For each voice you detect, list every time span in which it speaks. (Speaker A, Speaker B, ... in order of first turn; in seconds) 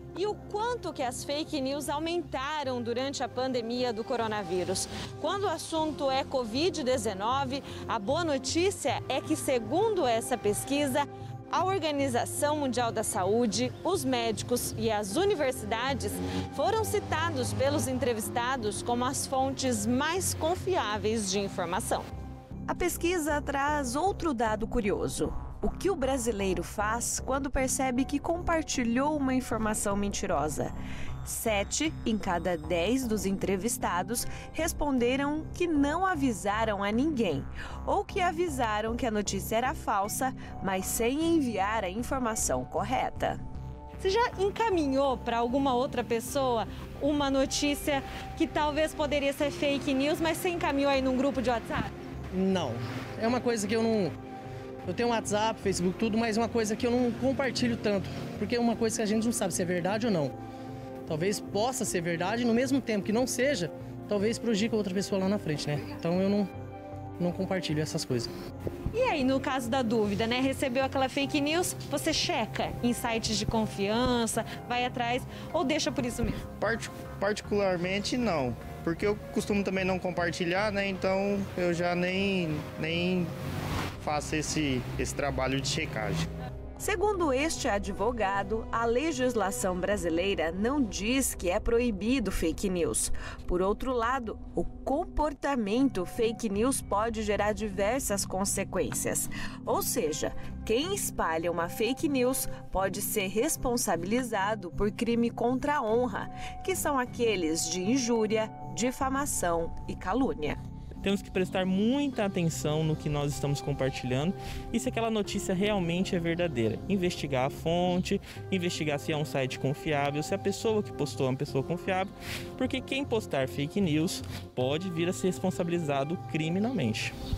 Speaker A: 0.1-22.1, 44.0-51.9, 68.9-76.4
Speaker B: 22.7-43.4, 86.8-110.6
Speaker C: 52.3-54.1, 54.9-60.3, 61.1-66.5, 67.2-68.3
Speaker D: 76.6-83.3, 84.0-86.3
Speaker E: 111.0-127.1